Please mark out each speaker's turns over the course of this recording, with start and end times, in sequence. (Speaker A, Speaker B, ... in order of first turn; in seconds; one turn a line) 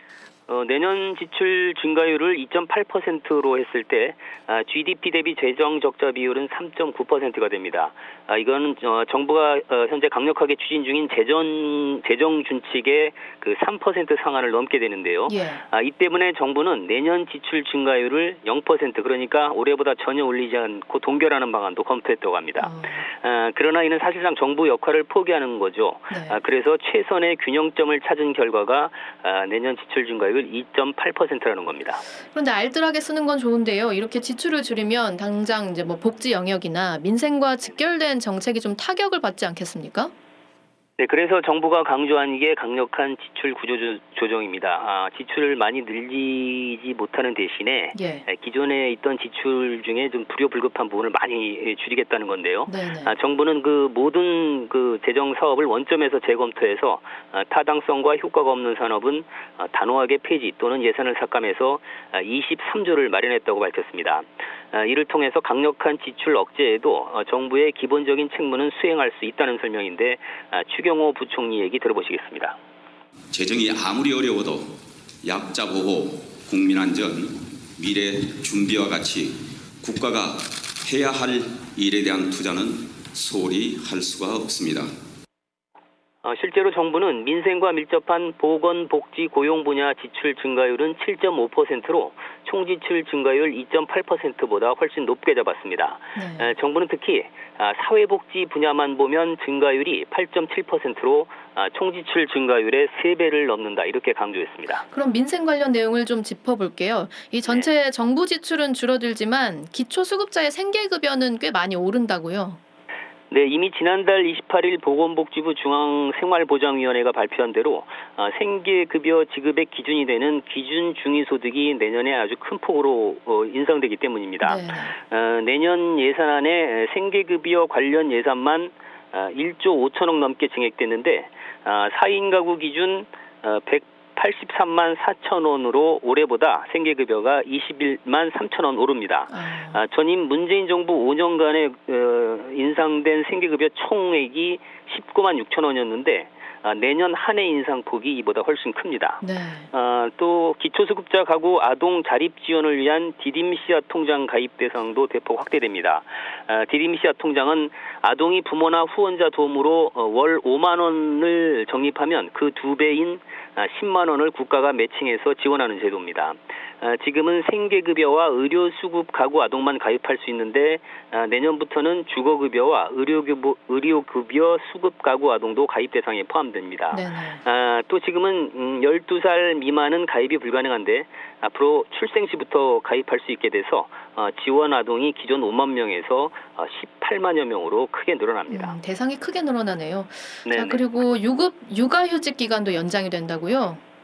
Speaker A: 0.5-32.0
Speaker B: 15.3-15.6
Speaker B: 22.6-23.0
Speaker B: 26.1-26.4
Speaker B: 32.3-40.1
Speaker A: 41.0-72.6
Speaker B: 47.9-48.2
Speaker B: 52.7-53.1
Speaker C: 73.3-85.0
Speaker A: 86.2-104.8
Speaker B: 96.2-96.5
Speaker B: 104.9-112.6
Speaker A: 113.3-149.2
Speaker B: 124.4-124.9
Speaker B: 139.3-139.8
Speaker B: 149.2-149.7
Speaker A: 149.7-188.7
Speaker B: 176.9-177.4
Speaker B: 188.5-193.8
Speaker A: 190.4-190.8